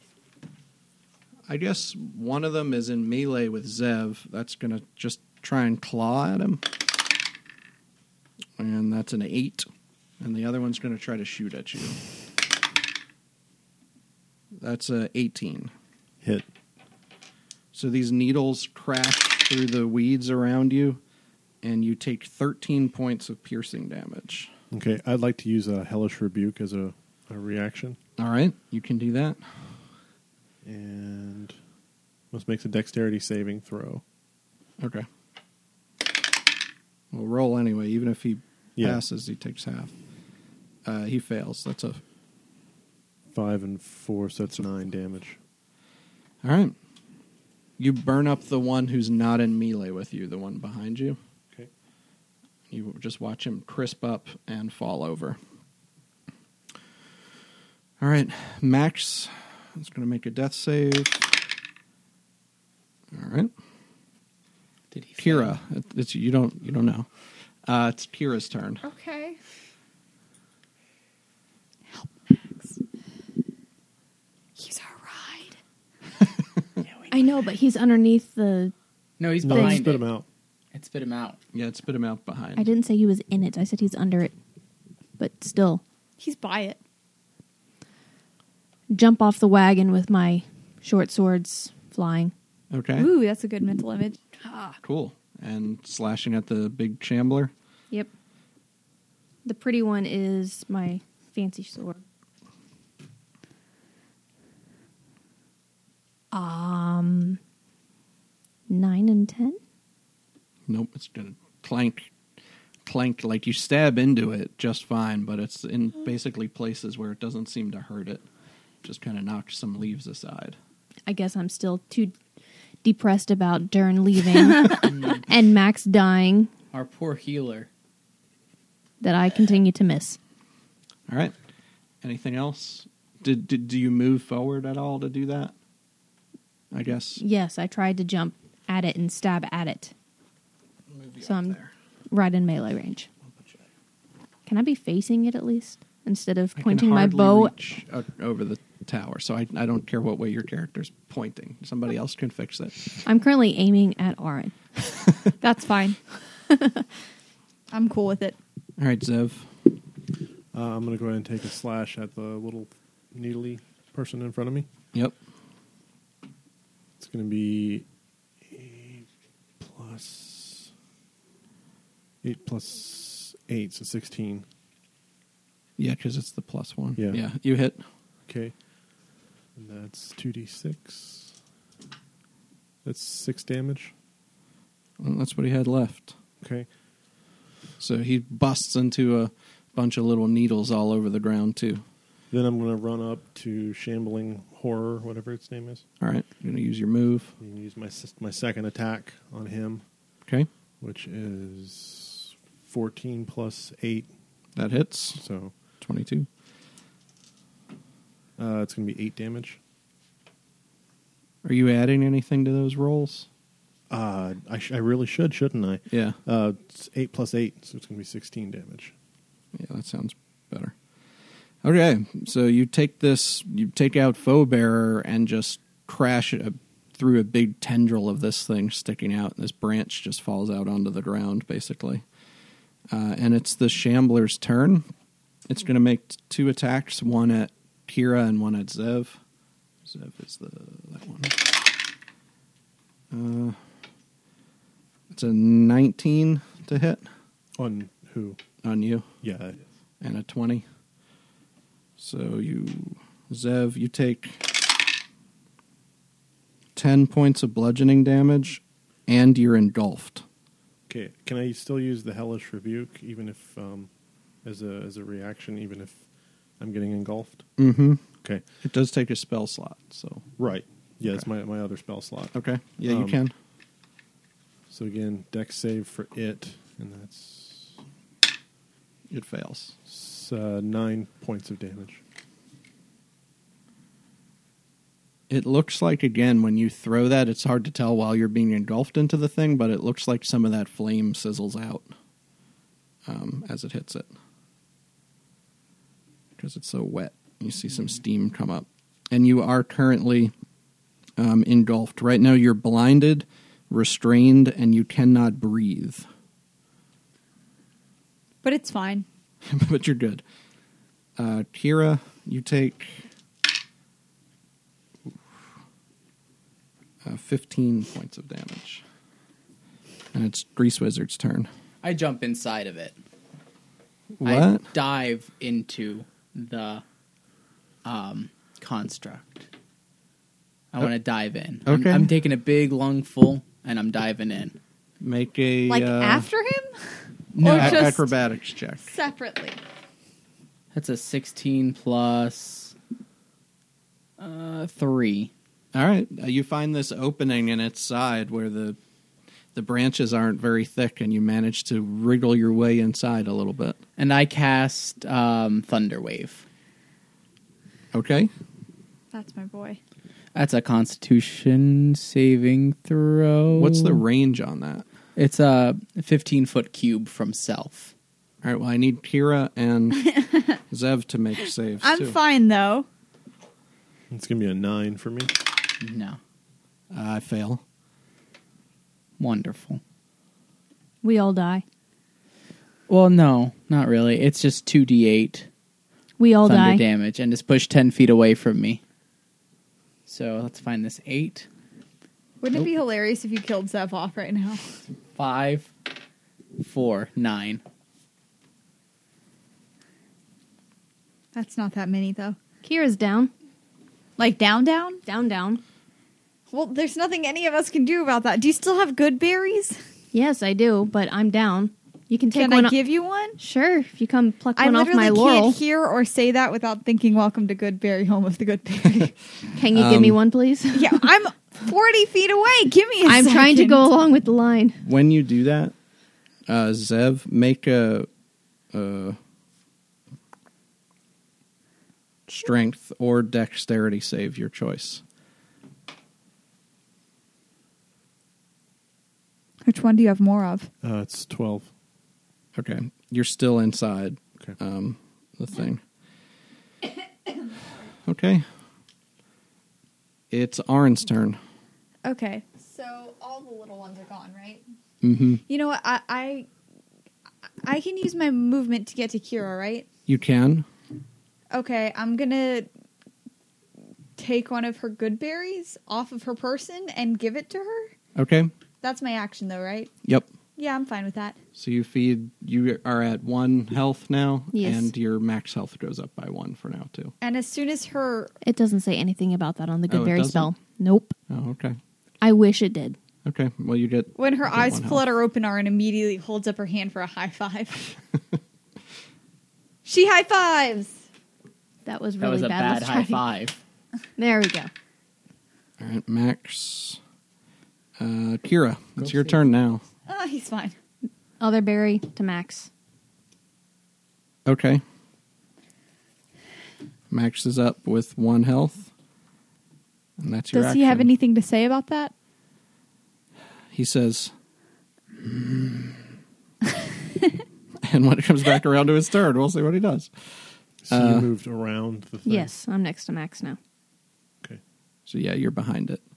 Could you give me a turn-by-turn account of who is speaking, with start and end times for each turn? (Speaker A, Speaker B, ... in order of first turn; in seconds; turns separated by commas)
Speaker A: 1.5-6.7, Speaker A: 8.6-9.7, Speaker A: 10.2-12.0, Speaker A: 14.6-15.7, Speaker B: 16.2-16.5, Speaker A: 17.7-21.0, Speaker A: 21.6-24.5, Speaker B: 24.7-28.0, Speaker A: 28.2-29.4, Speaker B: 30.6-31.5, Speaker B: 32.3-34.0, Speaker A: 34.8-35.1, Speaker A: 37.1-39.9, Speaker B: 38.8-39.0, Speaker A: 40.8-42.0, Speaker B: 43.3-45.4, Speaker A: 46.4-46.7, Speaker A: 47.8-51.2, Speaker A: 52.7-55.4, Speaker A: 58.0-61.4, Speaker A: 63.1-63.5, Speaker C: 64.9-65.5, Speaker A: 65.2-67.1, Speaker A: 67.7-68.8, Speaker D: 68.8-69.4, Speaker D: 71.9-72.8, Speaker D: 74.6-75.6, Speaker C: 76.8-77.2, Speaker E: 77.1-78.7, Speaker C: 79.2-80.0, Speaker B: 79.4-80.2, Speaker E: 79.5-79.8, Speaker C: 80.7-81.4, Speaker A: 81.5-82.7, Speaker E: 82.5-84.3, Speaker E: 85.2-85.8, Speaker D: 86.2-86.8, Speaker E: 88.9-92.3, Speaker A: 92.7-93.1, Speaker D: 93.0-94.2, Speaker E: 94.4-94.8, Speaker A: 94.8-97.5, Speaker E: 99.4-102.0, Speaker E: 106.3-107.4, Speaker E: 108.7-109.6, Speaker A: 110.7-112.1, Speaker A: 112.8-118.2, Speaker A: 118.8-120.6, Speaker E: 121.0-122.1, Speaker E: 122.8-126.5, Speaker C: 124.8-125.2, Speaker C: 126.7-127.7, Speaker E: 129.0-130.2, Speaker A: 131.1-131.3, Speaker A: 132.0-135.5, Speaker A: 136.7-137.2, Speaker E: 137.2-139.9, Speaker A: 140.9-141.7, Speaker E: 141.2-141.6, Speaker E: 142.1-143.1, Speaker E: 144.4-147.5, Speaker A: 146.6-152.9, Speaker E: 153.0-154.6, Speaker D: 155.4-156.0, Speaker E: 156.5-156.8, Speaker D: 157.7-158.3, Speaker A: 158.8-159.5, Speaker B: 160.5-164.7, Speaker B: 167.0-167.8, Speaker B: 168.4-169.1, Speaker B: 169.6-170.7, Speaker B: 172.2-174.4, Speaker A: 175.8-177.8, Speaker B: 178.3-178.5, Speaker B: 179.5-181.3, Speaker B: 182.8-183.9, Speaker A: 185.0-186.1, Speaker B: 186.4-186.7, Speaker A: 187.8-191.8, Speaker B: 192.3-195.8, Speaker A: 196.0-197.3, Speaker B: 197.4-199.8, Speaker B: 200.8-204.1, Speaker A: 204.6-205.2, Speaker B: 205.2-205.5, Speaker A: 205.8-206.3, Speaker B: 208.4-209.6, Speaker A: 211.4-213.3, Speaker B: 213.9-218.9, Speaker A: 215.9-216.2, Speaker A: 219.5-220.7, Speaker A: 221.6-232.0, Speaker A: 232.9-234.9, Speaker A: 235.5-239.2, Speaker A: 239.8-241.4, Speaker A: 243.1-243.6, Speaker A: 245.1-247.1, Speaker B: 247.6-248.4, Speaker A: 248.6-249.1, Speaker B: 249.2-249.6, Speaker A: 250.0-250.6, Speaker A: 252.0-254.5, Speaker A: 256.8-260.2, Speaker B: 260.9-263.9, Speaker B: 264.4-266.0, Speaker B: 266.6-267.5, Speaker A: 267.6-268.0, Speaker A: 268.6-270.2, Speaker B: 270.4-273.2, Speaker A: 272.3-273.3, Speaker B: 274.7-277.8, Speaker A: 279.1-279.7, Speaker B: 279.9-282.0, Speaker A: 285.3-291.9, Speaker A: 293.1-294.1, Speaker A: 296.4-300.3, Speaker A: 301.2-306.1, Speaker D: 308.4-309.1, Speaker A: 309.4-310.2, Speaker A: 311.2-313.0, Speaker A: 317.0-318.8, Speaker A: 320.1-321.5, Speaker C: 321.8-323.0, Speaker A: 324.2-324.6, Speaker C: 324.2-326.8, Speaker C: 327.8-329.5, Speaker C: 330.7-334.6, Speaker A: 331.6-332.1, Speaker A: 335.0-336.3, Speaker D: 335.7-338.1, Speaker C: 337.3-337.9, Speaker A: 337.4-338.9, Speaker D: 338.8-339.6, Speaker C: 340.7-342.7, Speaker C: 344.2-345.3, Speaker A: 345.7-348.8, Speaker A: 349.5-353.8, Speaker C: 354.0-356.4, Speaker A: 357.9-358.3, Speaker D: 359.1-359.8, Speaker C: 360.3-364.0, Speaker A: 363.6-364.8, Speaker C: 365.1-367.9, Speaker A: 368.4-372.2, Speaker D: 371.8-372.9, Speaker B: 374.1-375.3, Speaker C: 375.8-376.2, Speaker A: 376.9-377.6, Speaker C: 379.2-379.8, Speaker E: 381.0-381.6, Speaker C: 382.9-385.5, Speaker E: 386.2-386.8, Speaker C: 386.4-388.8, Speaker C: 390.1-391.5, Speaker D: 392.4-394.6, Speaker C: 395.1-395.7, Speaker C: 396.6-397.6, Speaker D: 401.3-402.4, Speaker E: 402.6-403.3, Speaker D: 404.2-405.0, Speaker E: 405.1-405.6, Speaker D: 406.5-409.8, Speaker E: 410.1-412.8, Speaker D: 412.3-413.4, Speaker E: 413.4-415.6, Speaker D: 414.6-419.1, Speaker E: 419.5-421.0, Speaker A: 419.7-420.2, Speaker D: 420.7-423.9, Speaker E: 423.0-424.8, Speaker A: 424.8-425.7, Speaker A: 426.5-428.1, Speaker A: 428.7-429.2, Speaker A: 432.3-435.0, Speaker D: 439.6-440.7, Speaker B: 440.8-441.7, Speaker A: 442.5-445.8, Speaker A: 448.1-448.4, Speaker A: 450.3-451.4, Speaker D: 452.0-454.6, Speaker A: 455.0-455.4, Speaker D: 455.4-456.5, Speaker D: 457.6-459.9, Speaker A: 460.1-460.6, Speaker D: 461.5-462.7, Speaker D: 464.2-467.9, Speaker A: 468.1-468.5, Speaker D: 468.8-469.9, Speaker D: 470.6-471.4, Speaker A: 471.5-477.1, Speaker E: 474.5-474.9, Speaker D: 477.2-478.3, Speaker E: 478.4-481.1, Speaker A: 479.9-480.5, Speaker A: 481.3-481.8, Speaker E: 482.2-482.9, Speaker A: 483.2-485.0, Speaker D: 484.1-487.9, Speaker D: 489.8-491.0, Speaker E: 491.8-493.2, Speaker C: 492.2-493.6, Speaker E: 494.2-494.7, Speaker A: 495.8-497.0, Speaker A: 498.0-499.8, Speaker C: 499.0-499.4, Speaker D: 500.1-500.8, Speaker E: 501.4-502.7, Speaker A: 504.4-504.8, Speaker A: 507.1-508.9, Speaker A: 510.2-511.1, Speaker D: 510.5-512.1, Speaker A: 513.7-514.3, Speaker A: 515.2-516.0, Speaker A: 517.8-520.1, Speaker B: 520.8-522.5, Speaker A: 520.9-521.3, Speaker E: 522.2-523.6, Speaker A: 525.1-526.0